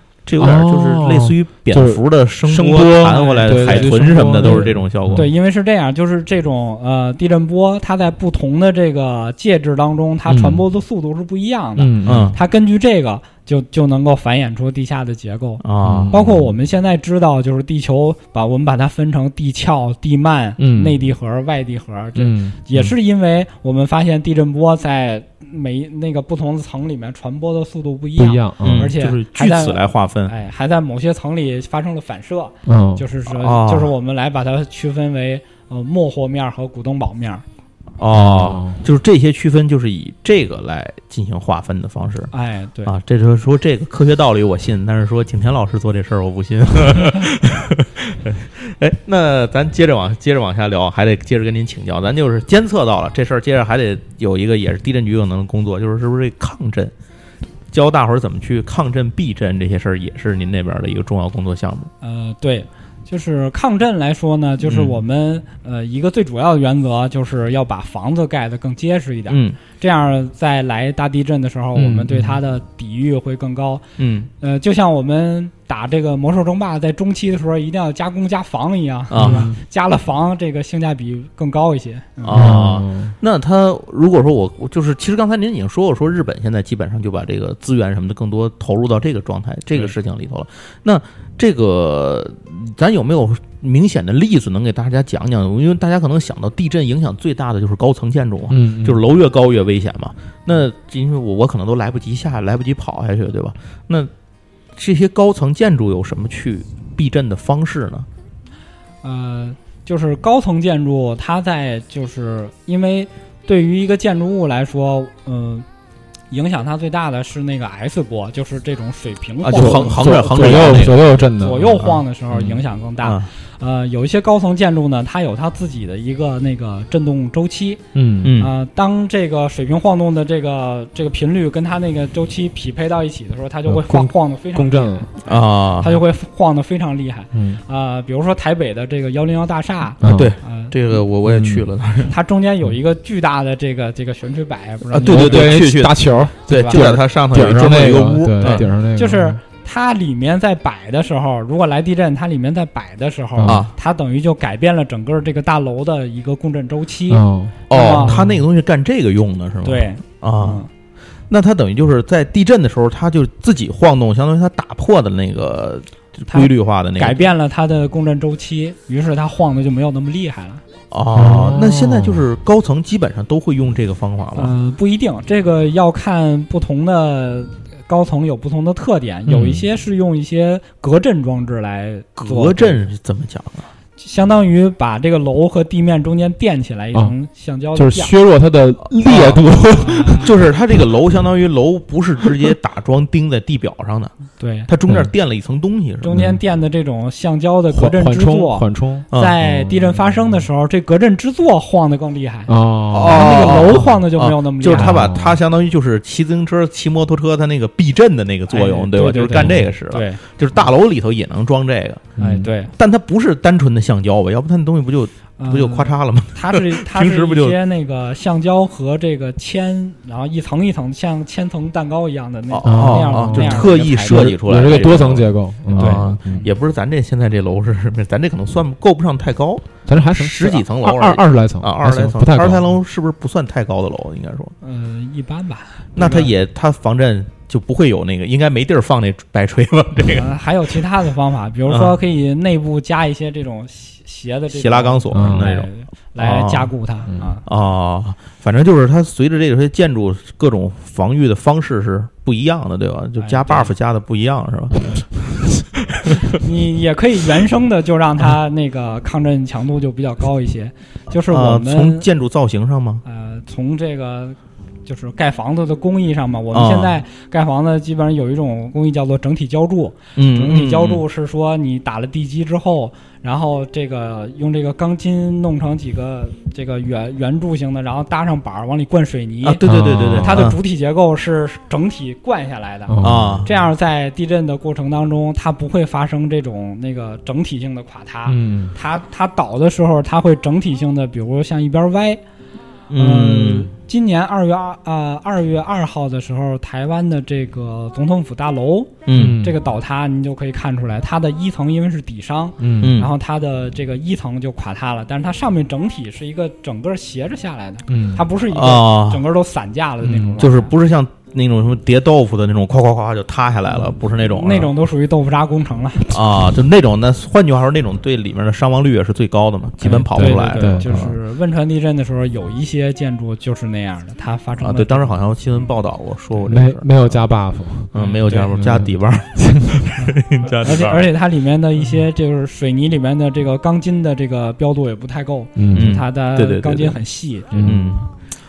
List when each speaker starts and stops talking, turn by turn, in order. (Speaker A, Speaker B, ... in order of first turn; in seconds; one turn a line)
Speaker A: 0.3-5.3
Speaker B: 0.4-5.3
Speaker C: 3.1-37.4
Speaker B: 10.3-10.6
Speaker B: 11.8-12.3
Speaker A: 12.0-12.4
Speaker A: 15.6-16.1
Speaker B: 15.8-16.5
Speaker B: 20.6-21.0
Speaker B: 22.2-22.9
Speaker B: 28.2-28.9
Speaker A: 28.6-30.3
Speaker B: 32.7-33.0
Speaker A: 33.3-33.9
Speaker A: 38.0-42.3
Speaker B: 38.1-38.8
Speaker C: 42.3-42.9
Speaker A: 42.9-56.9
Speaker A: 57.7-61.9
Speaker C: 62.0-73.8
Speaker A: 64.6-65.0
Speaker A: 69.3-69.6
Speaker B: 71.8-72.4
Speaker A: 74.0-74.3
Speaker C: 74.4-82.5
Speaker A: 79.1-79.5
Speaker B: 79.2-79.5
Speaker A: 82.2-104.1
Speaker B: 82.3-83.1
Speaker B: 98.5-99.0
Speaker A: 104.7-108.1
Speaker C: 109.0-115.7
Speaker C: 116.3-140.7
Speaker A: 119.4-121.1
Speaker B: 119.5-121.8
Speaker A: 121.8-123.3
Speaker B: 128.0-128.4
Speaker A: 128.2-128.5
Speaker B: 133.7-135.1
Speaker A: 135.2-136.0
Speaker B: 137.3-137.6
Speaker B: 140.0-140.3
Speaker A: 140.1-142.1
Speaker B: 141.2-141.7
Speaker C: 142.1-145.6
Speaker A: 144.9-148.7
Speaker B: 145.0-149.4
Speaker C: 146.5-146.8
Speaker C: 148.4-158.2
Speaker B: 153.4-153.6
Speaker A: 153.4-153.7
Speaker B: 157.1-158.4
Speaker A: 157.7-160.6
Speaker C: 159.6-160.7
Speaker A: 161.3-167.3
Speaker C: 166.3-170.6
Speaker A: 170.9-174.6
Speaker B: 171.1-172.2
Speaker C: 174.4-182.9
Speaker B: 179.3-179.6
Speaker A: 182.2-183.7
Speaker C: 184.0-188.1
Speaker B: 187.7-190.4
Speaker A: 189.0-189.4
Speaker C: 189.7-190.3
Speaker A: 190.2-194.1
Speaker C: 194.4-194.7
Speaker A: 194.7-196.2
Speaker C: 196.0-205.1
Speaker B: 196.1-196.4
Speaker B: 197.7-200.4
Speaker B: 202.5-203.9
Speaker A: 202.9-212.1
Speaker B: 204.7-205.4
Speaker C: 208.5-210.2
Speaker B: 209.4-209.6
Speaker B: 212.2-212.5
Speaker C: 212.2-212.7
Speaker A: 212.8-217.6
Speaker C: 215.4-224.8
Speaker A: 222.5-234.6
Speaker B: 222.6-226.5
Speaker C: 225.8-226.5
Speaker B: 229.9-232.7
Speaker C: 234.6-236.3
Speaker A: 235.9-240.3
Speaker C: 240.1-247.4
Speaker A: 241.7-241.9
Speaker A: 244.5-245.7
Speaker B: 245.1-245.5
Speaker A: 246.2-246.7
Speaker A: 247.4-255.4
Speaker C: 253.2-253.7
Speaker C: 256.3-262.1
Speaker A: 261.3-263.0
Speaker C: 263.1-279.6
Speaker A: 266.5-266.9
Speaker A: 270.2-271.0
Speaker A: 279.4-280.6
Speaker B: 279.6-280.5
Speaker C: 280.2-292.2
Speaker B: 282.9-283.5
Speaker A: 283.0-283.5
Speaker B: 288.3-288.7
Speaker A: 292.9-293.7
Speaker C: 292.9-310.7
Speaker A: 299.1-299.4
Speaker B: 299.2-299.6
Speaker B: 302.6-303.0
Speaker A: 302.8-303.1
Speaker B: 307.9-308.2
Speaker A: 308.5-309.2
Speaker B: 310.0-310.4
Speaker A: 310.4-314.7
Speaker C: 313.7-316.2
Speaker A: 316.1-321.1
Speaker B: 319.8-321.1
Speaker C: 319.9-325.2
Speaker A: 324.6-327.2
Speaker B: 326.4-329.9
Speaker A: 327.9-331.1
Speaker C: 328.0-328.5
Speaker C: 329.9-338.0
Speaker B: 335.6-336.0
Speaker A: 335.7-337.0
Speaker B: 337.5-337.9
Speaker A: 337.6-338.0